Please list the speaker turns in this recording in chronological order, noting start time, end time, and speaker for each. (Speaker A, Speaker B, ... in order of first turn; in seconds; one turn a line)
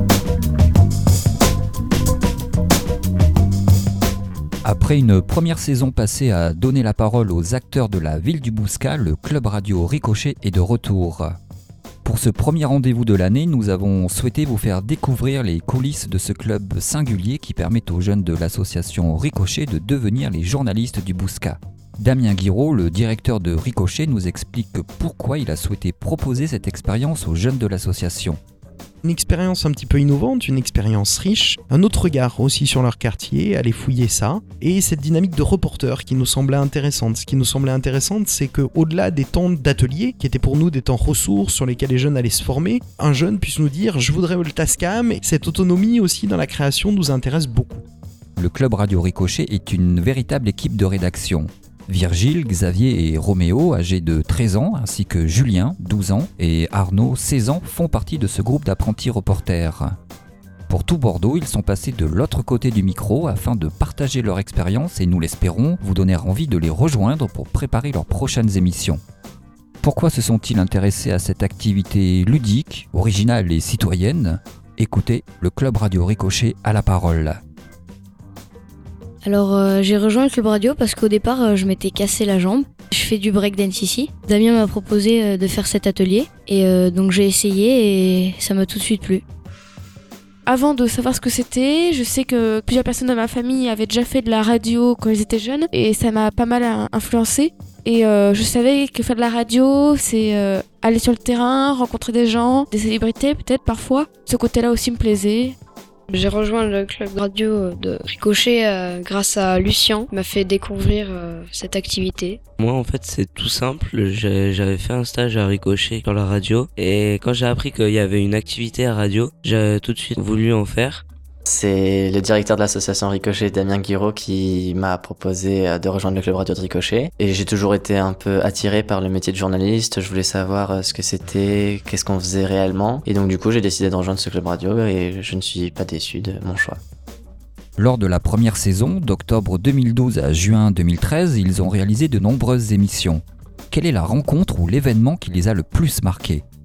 Speaker A: 4.6-11.4
Speaker A: 12.0-28.4
Speaker B: 29.0-47.8
Speaker A: 48.4-60.0
Speaker A: 60.7-69.0
Speaker A: 69.8-77.4
Speaker C: 79.2-89.2
Speaker D: 90.5-105.5
Speaker E: 106.1-112.4
Speaker F: 112.6-121.0
Speaker G: 121.5-136.8
Speaker A: 137.8-146.4